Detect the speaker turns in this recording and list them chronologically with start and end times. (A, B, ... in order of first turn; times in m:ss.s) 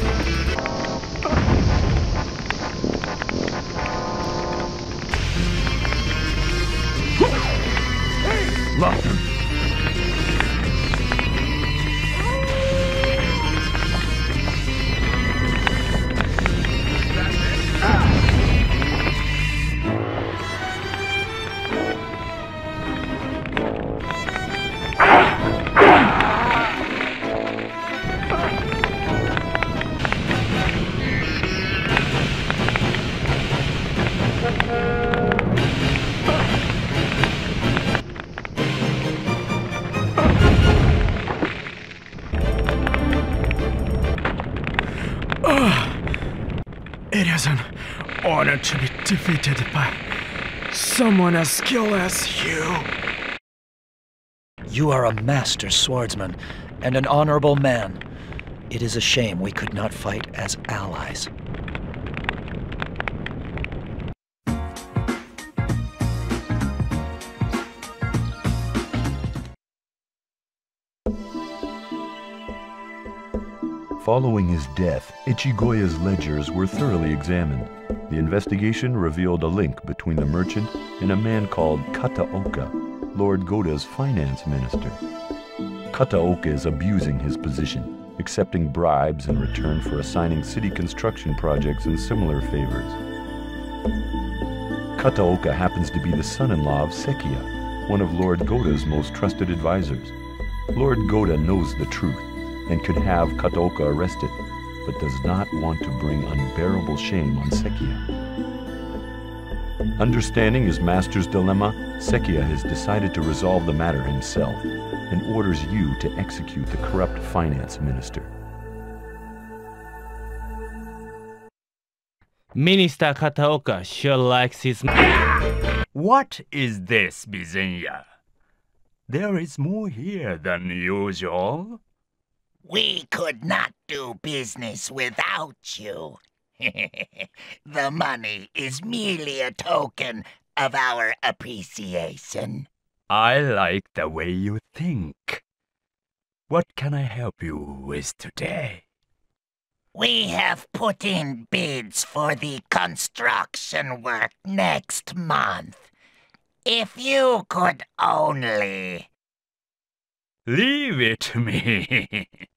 0:08.8-0:09.2 A
0:45.4-0:46.0 A
0:47.1-0:50.0 A
0:50.7-0:52.9 A
0:54.7-0:58.0 B
0:58.7-1:01.3 B
1:14.0-1:25.0 C
1:25.9-1:33.0 C
1:35.0-1:40.1 C
1:40.7-1:48.0 C
1:50.0-1:58.3 C
2:02.5-2:04.9 D
2:05.9-2:08.0 E
2:09.1-2:11.8 E
2:12.6-2:22.7 F
2:23.1-2:25.4 E
2:26.5-2:28.8 E
2:29.9-2:35.9 F
2:36.6-2:39.1 F
2:40.5-2:42.3 E